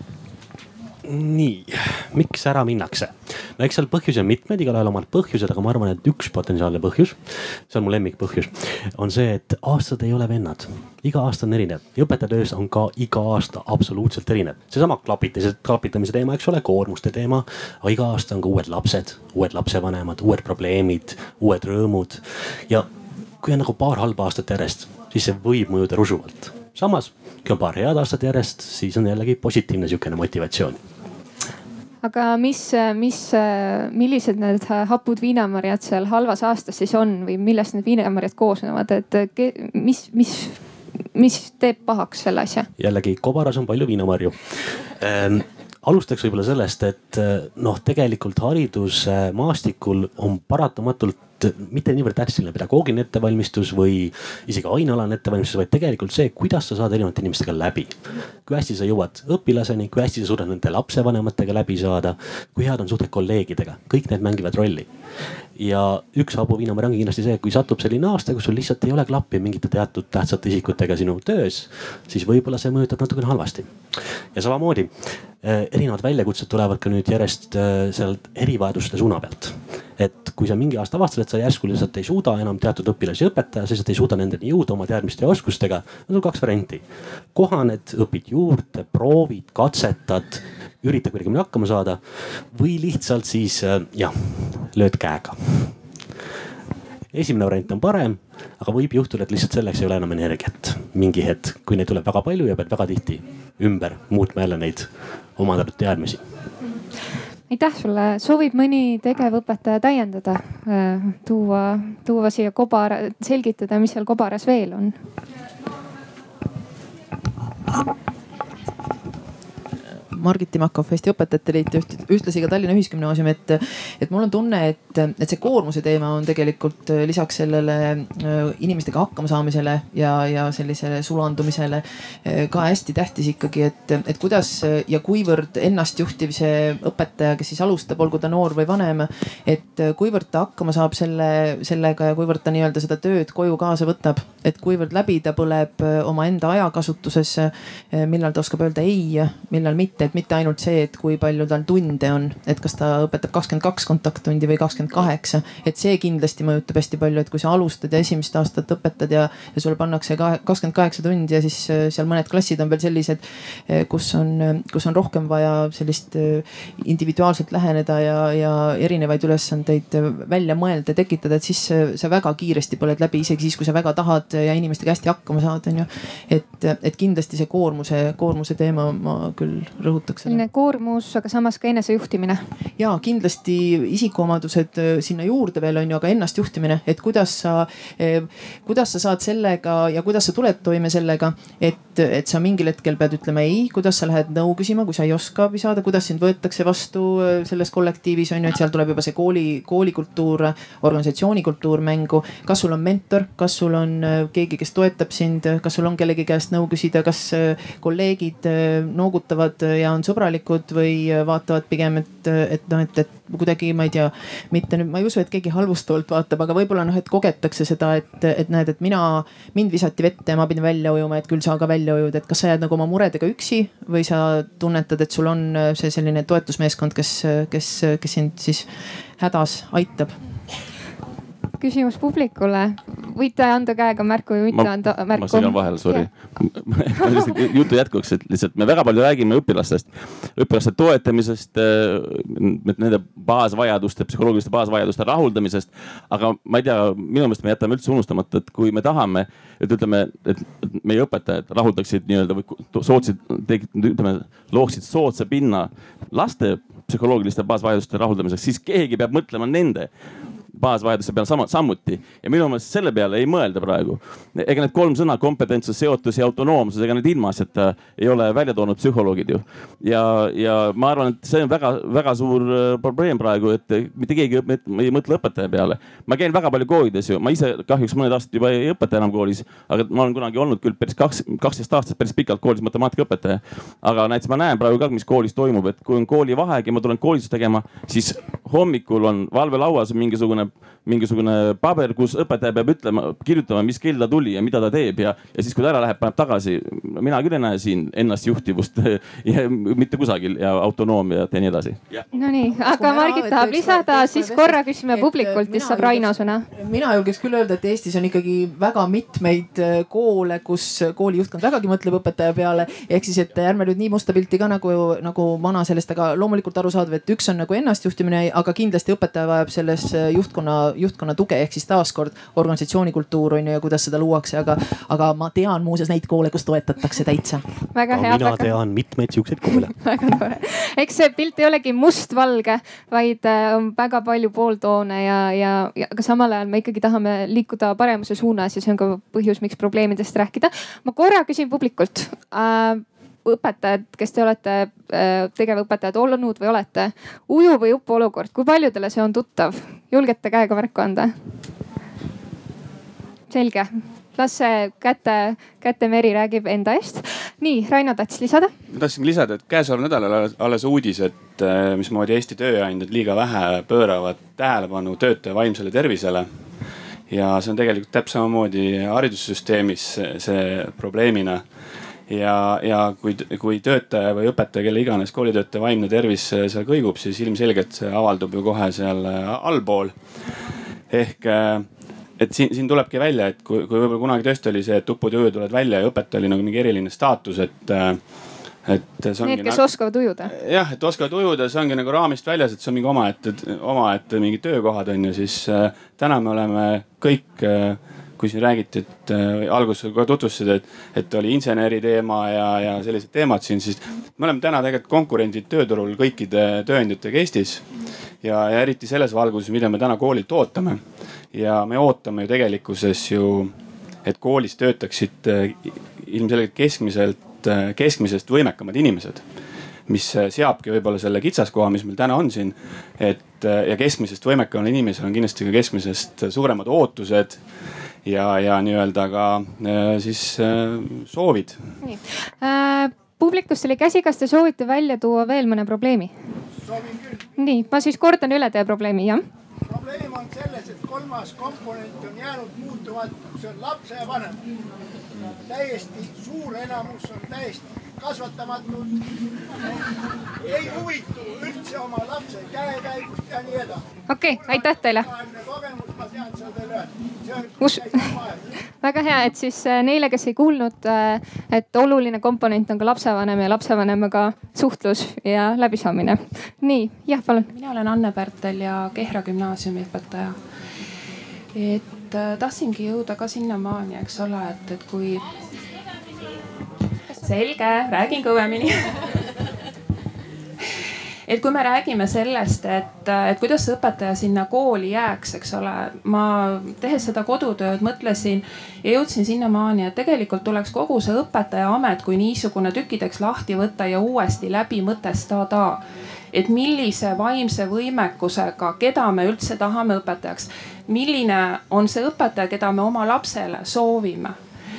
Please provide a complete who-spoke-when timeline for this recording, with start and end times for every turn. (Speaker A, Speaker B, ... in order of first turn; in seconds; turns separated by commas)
Speaker A: 1.0-22.9, Speaker A: 23.4-30.8, Speaker B: 32.0-40.6, Speaker B: 41.1-42.7, Speaker A: 42.8-64.9, Speaker A: 65.5-95.8, Speaker A: 97.1-106.3, Speaker B: 107.5-114.9, Speaker C: 120.1-180.4, Speaker B: 180.2-182.4, Speaker C: 182.8-230.2, Speaker B: 231.6-236.1, Speaker D: 234.5-259.9, Speaker D: 260.5-301.8, Speaker B: 302.1-306.5, Speaker C: 302.4-327.4, Speaker B: 327.7-328.6, Speaker A: 327.9-329.8, Speaker B: 329.8-351.1, Speaker B: 353.3-358.5, Speaker E: 358.7-366.3, Speaker E: 367.1-371.4, Speaker E: 372.1-379.9, Speaker E: 380.9-381.6, Speaker E: 382.2-388.0, Speaker E: 388.6-389.6, Speaker B: 389.2-390.3, Speaker E: 390.3-407.6, Speaker E: 408.2-410.8, Speaker E: 411.3-413.5, Speaker E: 414.0-419.2, Speaker E: 419.9-427.4, Speaker E: 428.1-431.6, Speaker B: 431.8-436.1, Speaker F: 436.6-437.2, Speaker B: 437.4-439.2, Speaker F: 439.7-444.4, Speaker F: 445.4-449.0, Speaker F: 450.4-458.5, Speaker B: 454.1-455.1, Speaker B: 457.6-458.0, Speaker B: 458.8-467.5, Speaker G: 467.5-470.4, Speaker G: 471.5-475.3, Speaker G: 477.2-478.9, Speaker G: 481.3-504.4